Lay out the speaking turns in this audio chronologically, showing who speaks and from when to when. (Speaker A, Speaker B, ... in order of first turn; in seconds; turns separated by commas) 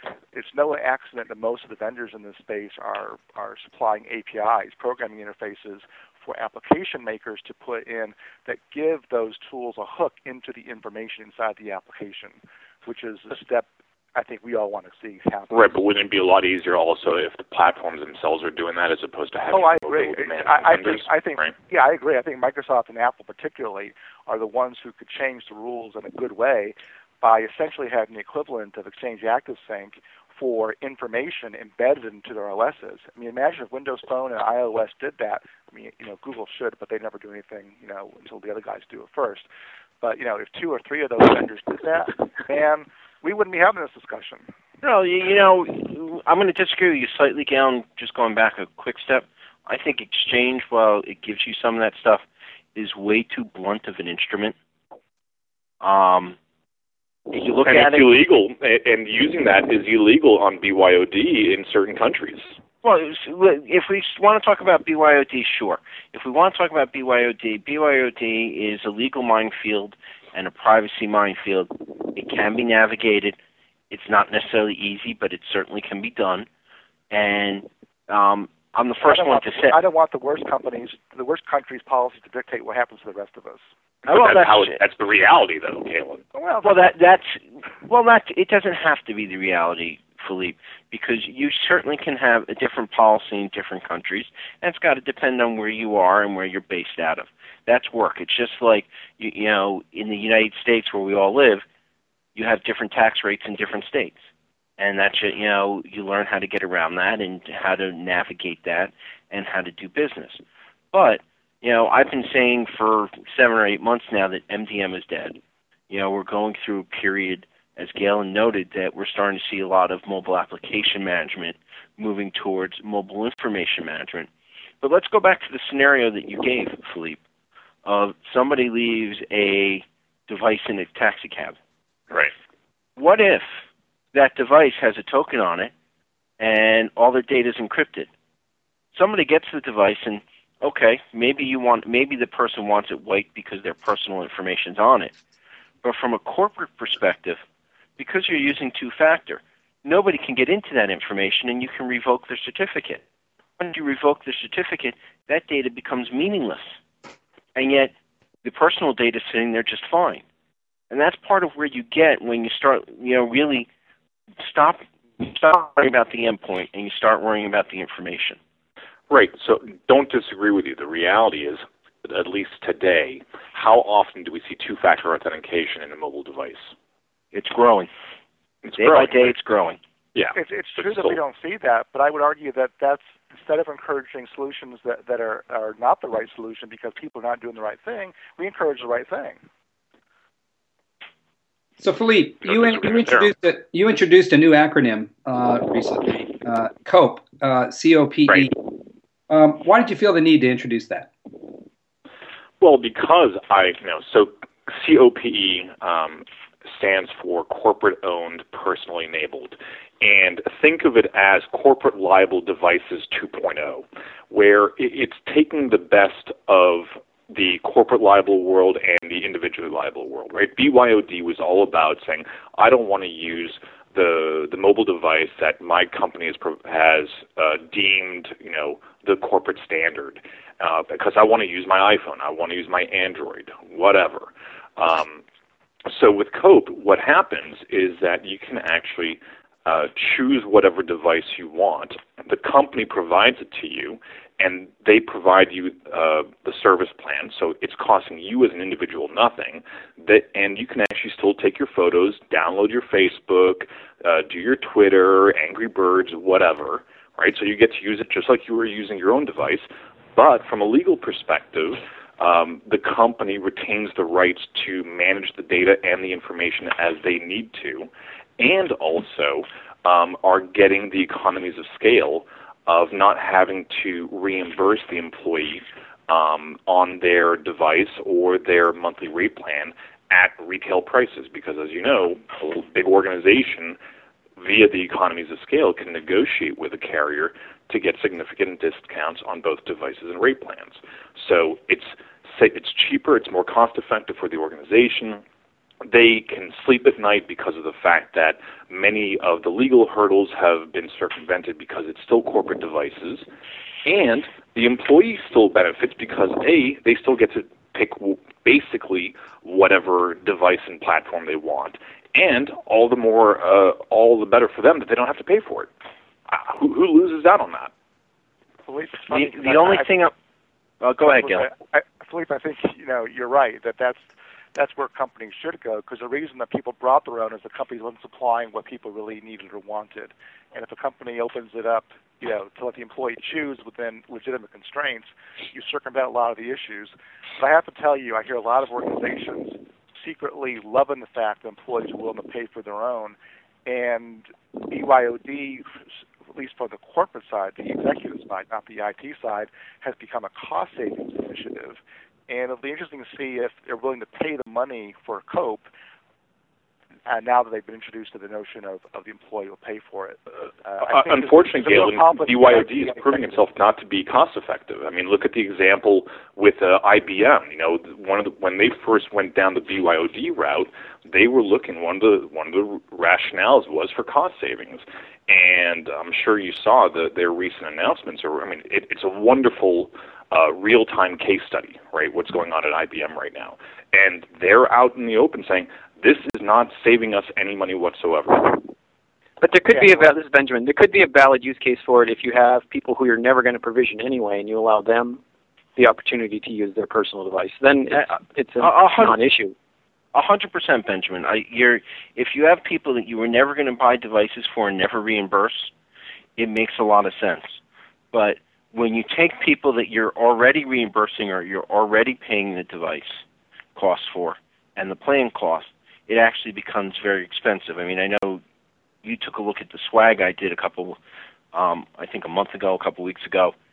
Speaker A: 0.3-15.8, Speaker B: 15.5-21.6, Speaker A: 19.5-39.5, Speaker A: 40.0-44.5, Speaker C: 44.8-52.2, Speaker C: 52.8-54.5, Speaker C: 55.8-56.4, Speaker C: 57.3-58.1, Speaker B: 57.6-62.6, Speaker C: 62.8-73.4, Speaker C: 73.9-76.5, Speaker C: 77.1-79.8, Speaker A: 79.0-83.6, Speaker B: 84.1-86.2, Speaker C: 84.1-84.8, Speaker A: 86.3-86.8, Speaker C: 86.6-101.6, Speaker C: 102.3-104.2, Speaker C: 104.8-110.4, Speaker C: 110.9-115.4, Speaker C: 115.9-124.3, Speaker C: 124.8-127.2, Speaker C: 127.8-131.6, Speaker C: 133.0-133.5, Speaker C: 134.1-135.7, Speaker C: 136.4-138.1, Speaker C: 138.9-145.2, Speaker C: 145.8-147.4, Speaker C: 148.0-153.0, Speaker C: 153.6-156.8, Speaker C: 157.6-157.9, Speaker C: 158.4-160.2, Speaker C: 160.9-163.7, Speaker C: 164.4-168.4, Speaker B: 169.1-176.7, Speaker C: 177.3-177.9, Speaker B: 178.6-179.3, Speaker C: 178.8-179.8, Speaker B: 180.2-181.2, Speaker A: 180.3-189.4, Speaker D: 191.8-198.6, Speaker B: 192.4-193.3, Speaker D: 199.3-201.1, Speaker B: 202.6-235.2, Speaker B: 235.9-283.8, Speaker B: 284.4-295.2, Speaker B: 295.9-303.3, Speaker B: 303.9-315.7, Speaker B: 316.3-317.7, Speaker A: 318.6-319.9, Speaker C: 319.1-320.1, Speaker C: 320.8-321.5, Speaker A: 321.0-345.8, Speaker A: 346.3-355.7, Speaker A: 357.1-363.4, Speaker B: 360.8-388.7, Speaker E: 389.4-395.2, Speaker E: 395.8-399.5, Speaker C: 398.0-399.2, Speaker C: 400.1-405.7, Speaker C: 406.4-407.6, Speaker C: 408.1-413.2, Speaker C: 413.8-418.4, Speaker C: 419.0-421.0, Speaker C: 421.5-423.6